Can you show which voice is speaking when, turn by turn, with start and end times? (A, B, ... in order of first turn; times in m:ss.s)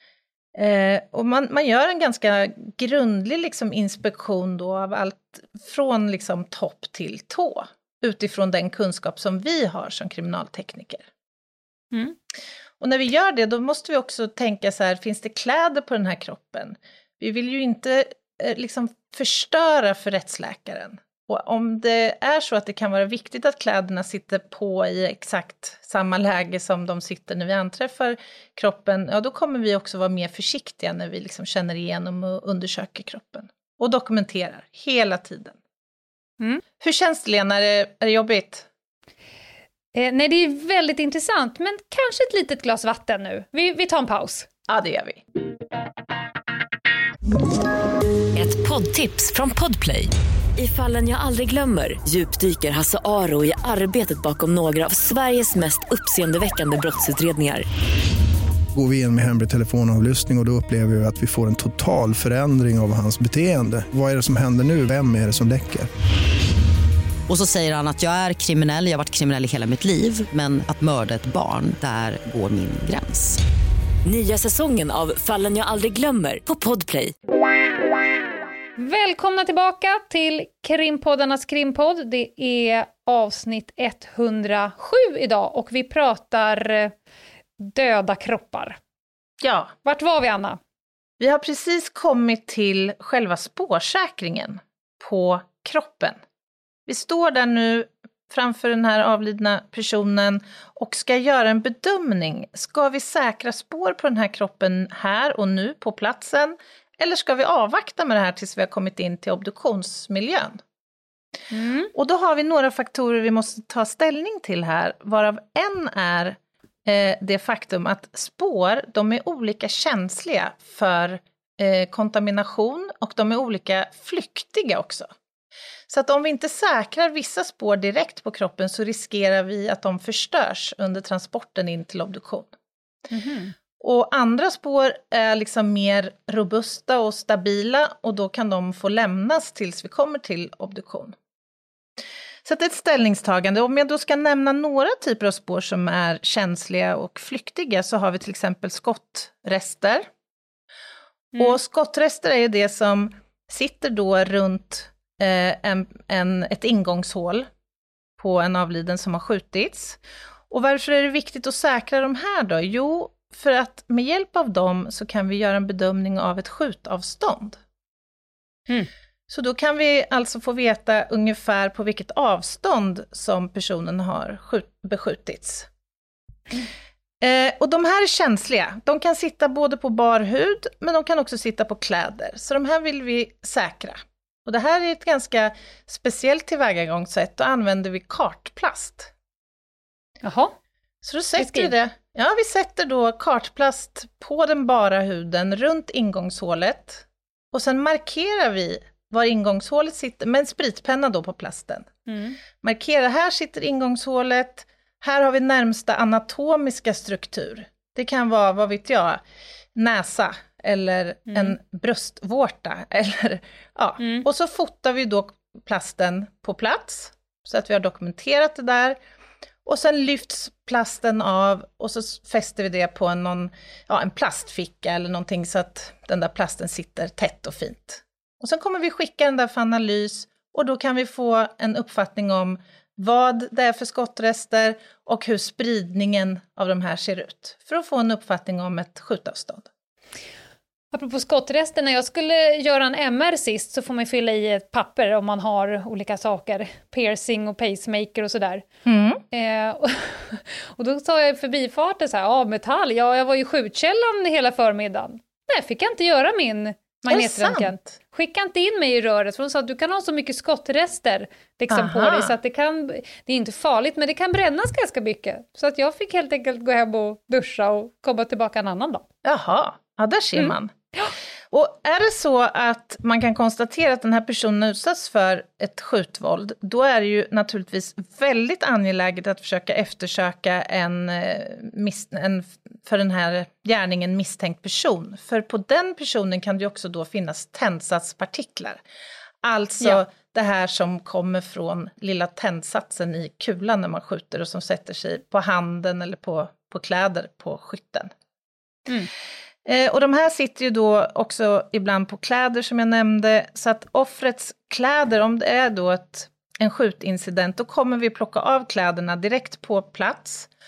0:00.5-0:11.1 A
0:12.8-0:35.6 A
0:36.8-0:38.7 A
0:39.9-0:44.5 B
0:44.7-0:45.2 A
0:48.3-0:57.6 C
0:58.7-1:05.9 D
1:07.3-1:13.4 E
1:14.0-1:17.1 C
1:18.8-1:26.9 B
1:27.6-1:28.8 B
1:29.4-1:29.7 A
1:29.8-1:30.6 B
1:31.2-1:36.2 A
1:36.9-1:50.6 A
1:51.5-1:51.9 B
1:51.9-2:05.1 A
2:05.9-2:12.5 A
2:13.1-2:13.5 B
2:13.8-2:21.2 A
2:22.4-2:30.1 A
2:31.4-2:37.5 A
2:38.2-2:47.6 A
2:49.3-2:55.7 A
2:57.2-3:09.1 A
3:10.2-3:10.5 B
3:11.0-3:21.9 A
3:11.4-3:11.7 B
3:22.1-3:22.4 B
3:22.5-3:29.2 A
3:29.7-3:39.0 A
3:31.3-3:31.5 B
3:34.0-3:34.2 B
3:39.6-3:59.7 A
4:00.9-4:08.6 B
4:08.8-4:09.2 A
4:09.3-4:29.0 B
4:17.0-4:17.9 A
4:21.7-4:22.3 A
4:29.2-4:30.7 A
4:30.4-4:31.1 B
4:31.5-4:48.8 A
4:49.4-4:58.1 A
4:59.6-5:10.5 A